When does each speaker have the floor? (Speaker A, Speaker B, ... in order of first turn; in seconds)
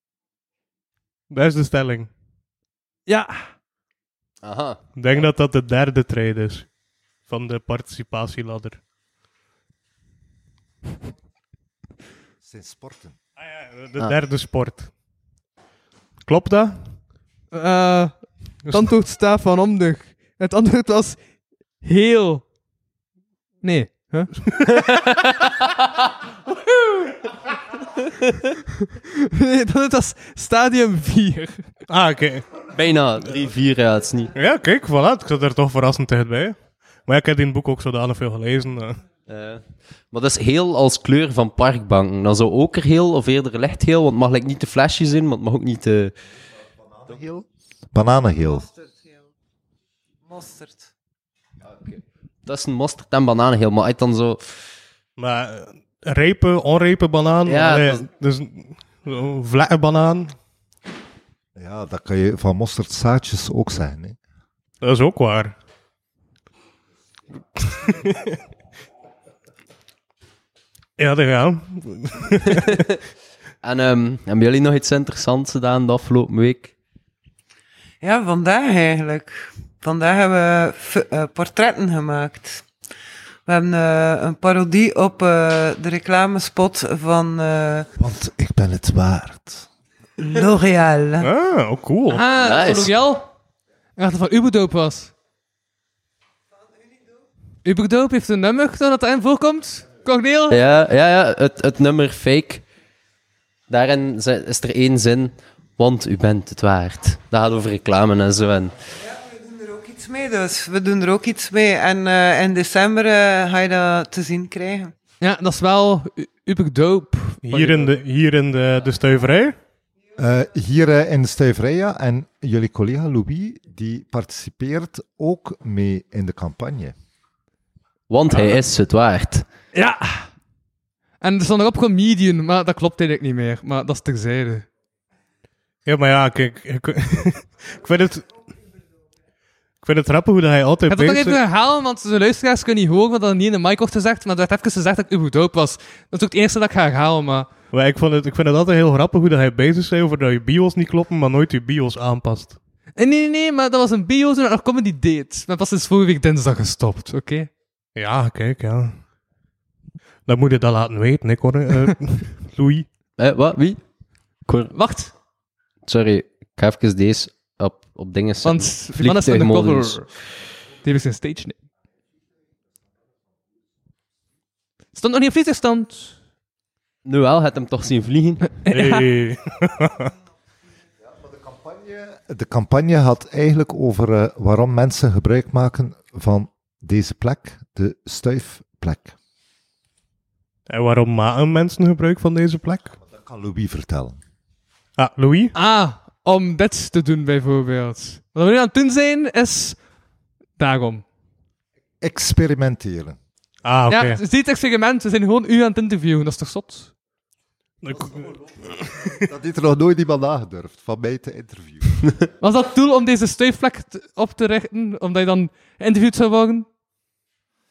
Speaker A: 1.3-2.1, 5.0-6.7, 7.3-8.8, 13.4-14.9, 16.2-16.9, 18.7-18.9, 31.9-32.5, 34.4-39.0, 55.2-60.4, 64.8-65.5, 67.7-68.4, 71.0-72.8, 91.2-92.2, 117.5-119.6, 135.9-138.3, 139.8-141.4, 147.7-152.6, 158.0-159.0, 160.3-162.9, 178.7-180.1, 190.7-193.0, 195.0-195.5, 203.6-204.2, 207.8-208.3
Speaker B: 3.1-3.5, 17.5-21.2, 21.8-22.4, 23.6-24.3, 29.0-31.6, 92.1-93.3, 94.0-95.1, 97.7-100.6, 115.2-117.9, 129.7-130.3, 131.2-134.7, 140.9-147.5, 153.0-157.5, 164.7-165.1, 168.4-170.1, 170.8-171.6, 174.9-176.2, 178.6-179.1, 195.5-199.8, 200.6-201.0, 203.9-206.9, 212.4-216.7
Speaker C: 4.4-5.3, 24.7-25.9, 32.7-34.3, 39.3-46.1, 51.7-54.7, 57.5-58.1, 72.6-73.0, 73.6-76.7, 92.4-92.9, 100.5-102.6, 103.7-108.8, 128.1-129.5, 163.2-163.8, 164.5-164.8, 165.9-170.0, 177.1-178.6
Speaker D: 12.4-13.2, 46.9-48.7, 61.5-64.2, 88.0-89.7, 120.2-127.0, 181.1-189.2, 193.0-194.2, 202.0-203.2, 207.9-208.3, 209.1-212.1
Speaker E: 48.5-49.2, 50.3-50.9, 78.0-82.6, 83.5-87.9, 90.2-91.3, 109.0-114.9